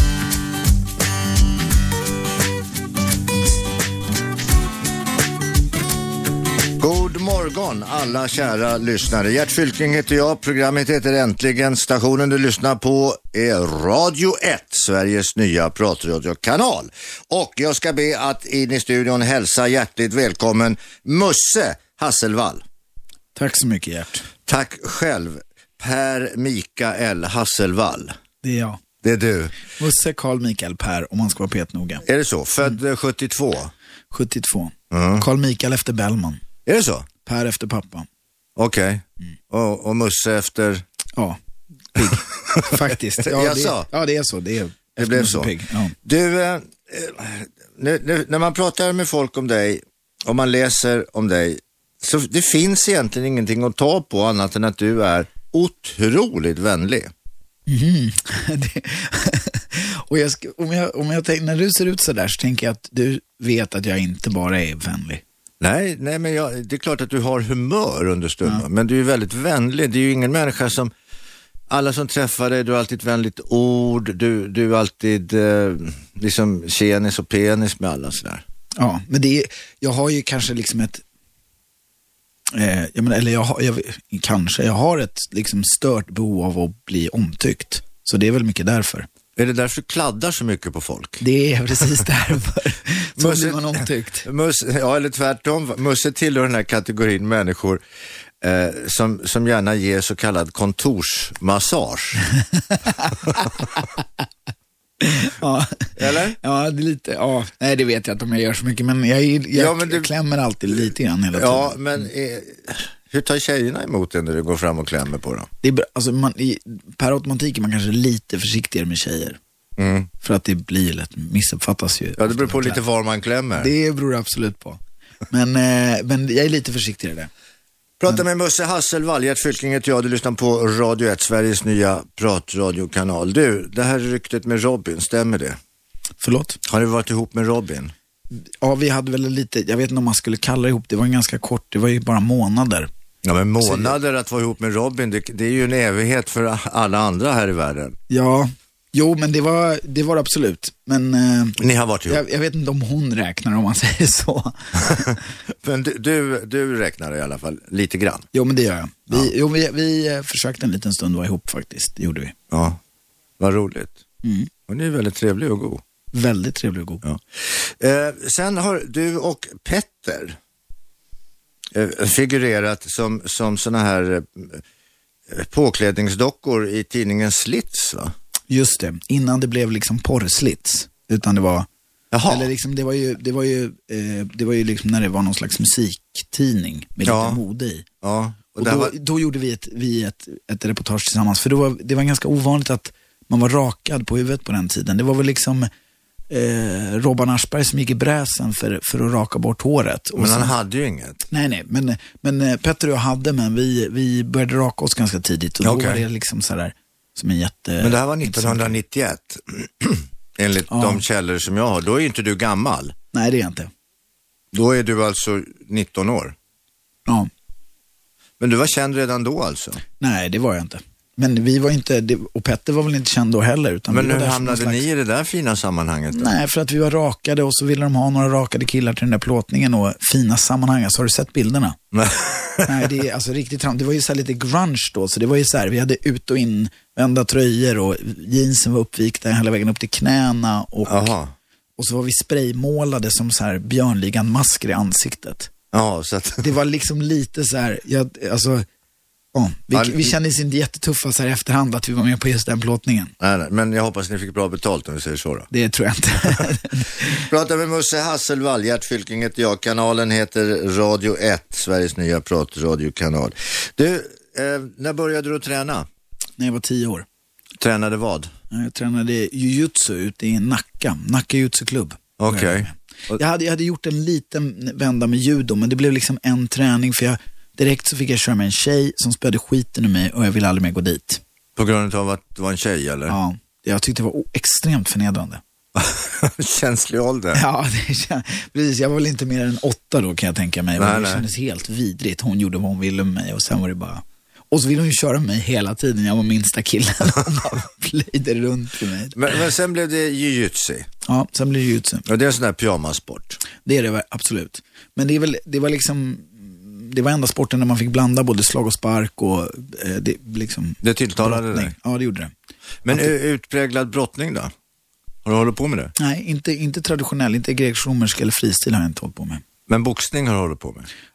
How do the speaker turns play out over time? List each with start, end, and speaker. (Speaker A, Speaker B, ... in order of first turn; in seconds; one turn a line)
Speaker A: 6.8-22.6
Speaker B: 23.4-24.3
Speaker A: 24.5-28.1
Speaker B: 28.4-28.8
Speaker A: 29.0-29.6
Speaker B: 29.8-32.0
Speaker A: 32.0-33.7
Speaker B: 34.1-36.4
Speaker A: 34.9-35.2
Speaker A: 36.7-37.1
Speaker B: 37.2-38.1
Speaker A: 38.6-40.8
Speaker B: 41.9-46.0
Speaker A: 42.5-43.9
Speaker A: 45.0-45.5
Speaker A: 46.0-57.1
Speaker B: 57.7-65.2
Speaker A: 65.6-70.9
Speaker A: 71.7-78.4
Speaker B: 78.8-81.0
Speaker B: 82.5-89.1
Speaker A: 89.4-91.2
Speaker B: 91.2-94.3
Speaker A: 93.2-97.8
Speaker A: 98.4-102.3
Speaker B: 102.7-103.5
Speaker B: 105.0-112.0
Speaker A: 106.0-106.4
Speaker A: 109.5-110.1
Speaker A: 111.3-115.5
Speaker B: 115.6-119.4
Speaker A: 119.8-120.1
Speaker B: 120.2-122.8
Speaker A: 122.2-123.7
Speaker B: 123.6-127.3
Speaker A: 128.0-135.6
Speaker B: 136.2-136.6
Speaker A: 136.7-137.9
Speaker B: 138.3-142.9
Speaker A: 143.2-148.0
Speaker B: 143.6-143.9
Speaker B: 148.1-155.2
Speaker A: 151.6-152.2
Speaker A: 155.6-158.3
Speaker B: 158.3-162.3
Speaker A: 162.5-162.8
Speaker A: 163.4-164.0
Speaker B: 164.2-164.5
Speaker A: 164.7-165.8
Speaker B: 166.1-167.0
Speaker A: 167.0-170.4
Speaker A: 171.7-174.6
Speaker A: 175.3-178.1
Speaker B: 178.5-181.7
Speaker A: 182.1-182.5
Speaker B: 182.3-187.8
Speaker A: 187.1-187.4
Speaker A: 188.0-188.9
Speaker B: 188.6-195.7
Speaker B: 196.3-200.5
Speaker A: 200.2-201.2
Speaker B: 201.3-208.8
Speaker A: 205.6-206.0
Speaker A: 207.8-212.9
Speaker B: 210.7-211.0
Speaker B: 213.1-213.7
Speaker A: 214.5-216.3
Speaker A: 218.4-219.8
Speaker B: 220.0-224.9
Speaker A: 223.9-226.3
Speaker B: 226.1-231.8
Speaker A: 231.9-232.7
Speaker B: 232.7-241.1
Speaker A: 240.9-241.3
Speaker B: 241.8-245.5
Speaker A: 245.7-246.5
Speaker B: 246.4-248.7
Speaker B: 249.3-253.1
Speaker A: 249.7-250.1
Speaker A: 253.2-255.5
Speaker B: 255.5-257.2
Speaker A: 257.1-265.9
Speaker B: 266.4-267.1
Speaker A: 267.6-268.3
Speaker B: 268.5-281.2
Speaker A: 272.2-273.2
Speaker A: 281.6-283.2
Speaker B: 283.1-285.4
Speaker A: 285.8-287.4
Speaker B: 287.3-299.3
Speaker A: 290.8-291.2
Speaker A: 299.1-300.9
Speaker B: 301.1-302.1
Speaker A: 302.1-303.4
Speaker B: 303.6-312.3
Speaker A: 310.8-311.7
Speaker A: 312.9-314.5
Speaker A: 315.2-315.9
Speaker B: 316.0-319.4
Speaker A: 319.7-320.9